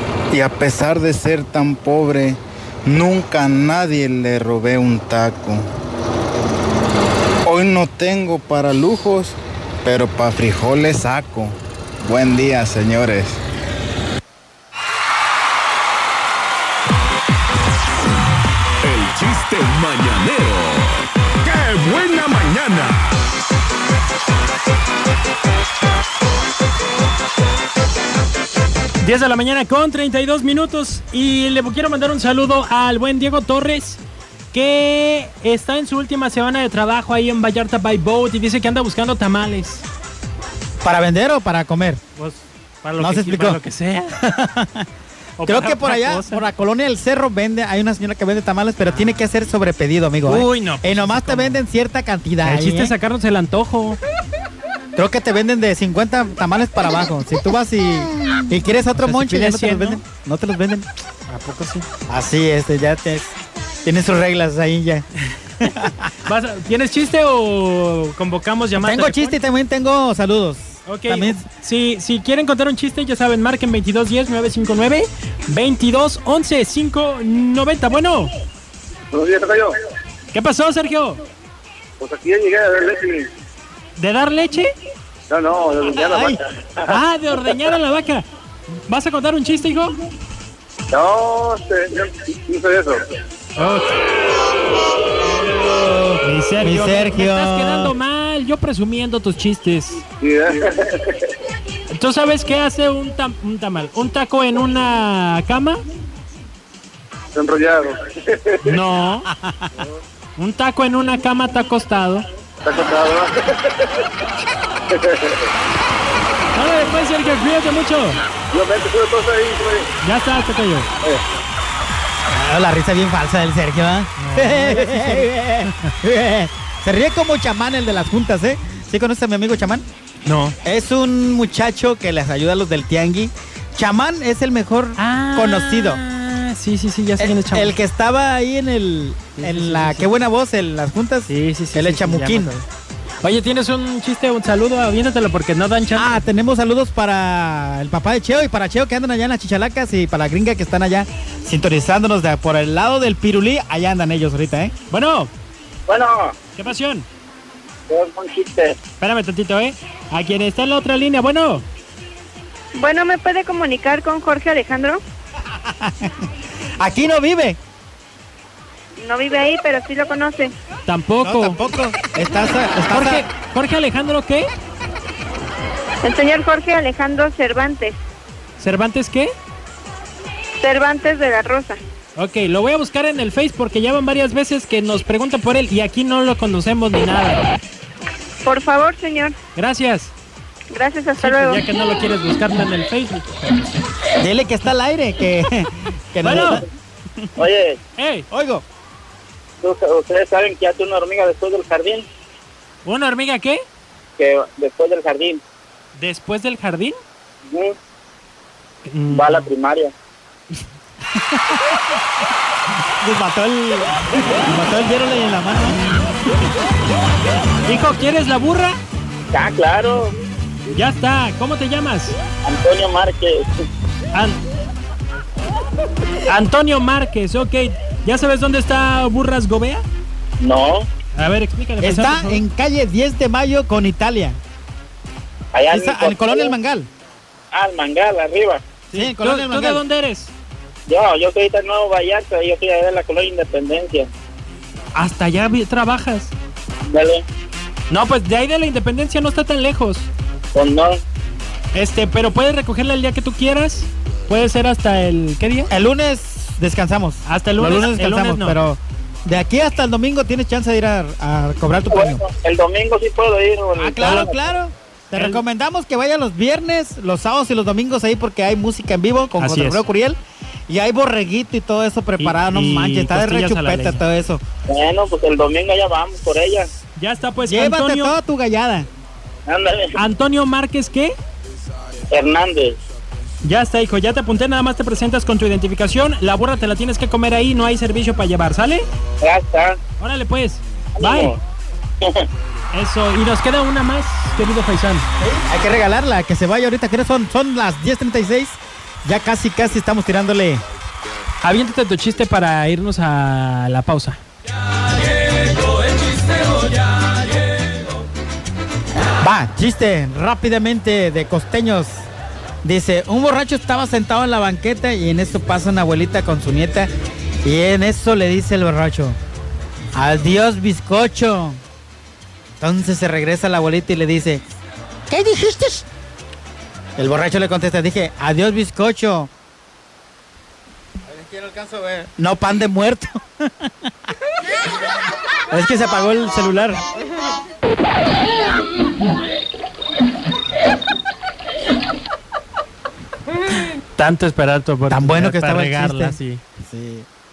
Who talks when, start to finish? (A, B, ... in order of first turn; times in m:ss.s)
0:00.3-0:05.6 A
0:07.4-0:13.4 A
0:18.8-0:23.0 B
0:29.0-0:34.0 C
0:34.5-0:39.8 C
0:40.8-0:42.0 D
0:42.2-0:44.2 C
0:43.0-0:43.6 D
0:44.2-0:44.9 D
0:45.4-0:46.4 C
0:45.4-0:52.9 D
0:48.8-0:49.1 C
0:50.2-0:51.6 C
0:52.4-0:54.0 C
0:55.0-1:00.9 D
0:59.0-1:00.0 C
1:01.3-1:01.8 C
1:02.1-1:05.0 D
1:05.6-1:06.1 D
1:06.2-1:09.4 C
1:08.8-1:11.4 D
1:10.8-1:18.3 C
1:19.1-1:19.7 E
1:20.3-1:21.2 C
1:22.0-1:23.2 E
1:24.0-1:24.7 C
1:25.3-1:26.4 E
1:25.9-1:26.4 D
1:26.8-1:28.2 C
1:28.8-1:29.9 C
1:30.9-1:33.0 E
1:33.6-1:34.0 C
1:35.7-1:37.9 D
1:36.2-1:40.0 C
1:40.2-1:41.2 E
1:41.9-1:45.8 C
1:47.4-1:48.6 E
1:48.6-1:49.3 C
1:49.3-1:49.7 D
1:50.4-1:52.2 C
1:52.6-1:53.8 E
1:54.9-1:55.4 E
1:56.5-1:58.2 C
1:58.5-1:59.9 E
2:00.0-2:00.9 C
2:02.3-2:09.8 D
2:04.2-2:05.3 C
2:10.2-2:10.6 C
2:10.6-2:16.0 D
2:15.0-2:17.8 C
2:17.2-2:22.5 D
2:19.4-2:20.1 C
2:21.2-2:22.6 C
2:23.2-2:26.2 C
2:26.0-2:34.7 D
2:34.9-2:35.3 C
2:35.9-2:36.3 E
2:36.5-2:37.1 C
2:37.9-2:38.8 E
2:39.0-2:41.6 C
2:42.8-2:45.0 F
2:45.5-2:47.6 D
2:49.0-2:50.5 F
2:50.8-2:51.6 C
2:51.2-2:53.2 D
2:52.9-2:54.5 C
2:56.0-2:58.0 F
2:58.6-2:59.3 C
3:00.6-3:01.8 F
3:02.2-3:07.5 C
3:08.4-3:09.4 F
3:09.6-3:10.1 C
3:10.7-3:11.6 F
3:11.2-3:13.7 C
3:14.2-3:16.6 D
3:16.2-3:16.6 C
3:17.4-3:17.8 E
3:18.0-3:18.3 C
3:18.3-3:18.6 D
3:19.6-3:22.1 E
3:22.8-3:23.6 C
3:24.2-3:25.4 E
3:26.0-3:27.0 C
3:28.8-3:29.5 C
3:29.1-3:29.9 E
3:31.1-3:32.0 D
3:33.0-3:35.8 D
3:37.6-3:38.8 C
3:39.3-3:40.1 E
3:40.7-3:42.2 C
3:42.4-3:43.4 E
3:44.1-3:44.4 C
3:46.3-3:49.8 C
3:50.4-3:50.9 E
3:51.1-3:52.4 C
3:51.8-3:54.4 D
3:55.5-3:56.6 E
3:55.7-3:56.9 D
3:57.5-3:58.6 E
3:58.9-4:00.3 C
3:58.9-3:59.8 D
4:00.9-4:04.1 E
4:04.9-4:06.3 C
4:06.8-4:07.2 E
4:07.9-4:10.1 C
4:10.5-4:11.0 E
4:11.7-4:15.7 C
4:15.7-4:22.2 D
4:17.2-4:18.6 C
4:21.9-4:24.3 E
4:23.8-4:30.2 D
4:24.0-4:24.3 C
4:25.1-4:25.4 C
4:29.4-4:29.8 C
4:30.7-4:34.4 D
4:32.2-4:34.0 C
4:34.7-4:36.7 E
4:37.0-4:38.1 C
4:37.4-4:38.9 D
4:39.5-4:39.9 E
4:39.9-4:41.1 C
4:42.1-4:42.8 E
4:43.4-4:48.8 C
4:49.2-4:49.8 E
4:50.0-4:51.3 C
4:51.0-4:51.4 E
4:52.7-4:55.0 C
4:55.2-5:00.6 D
5:01.4-5:04.2 C
5:09.2-5:12.1 D
5:12.6-5:16.9 D
5:17.4-5:19.2 D
5:19.9-5:21.6 D
5:22.6-5:24.4 D
5:25.1-5:25.8 D
5:27.0-5:29.3 D
5:31.1-5:33.9 D
5:35.5-5:36.8 D
5:43.9-5:46.4 C
5:44.9-5:47.1 D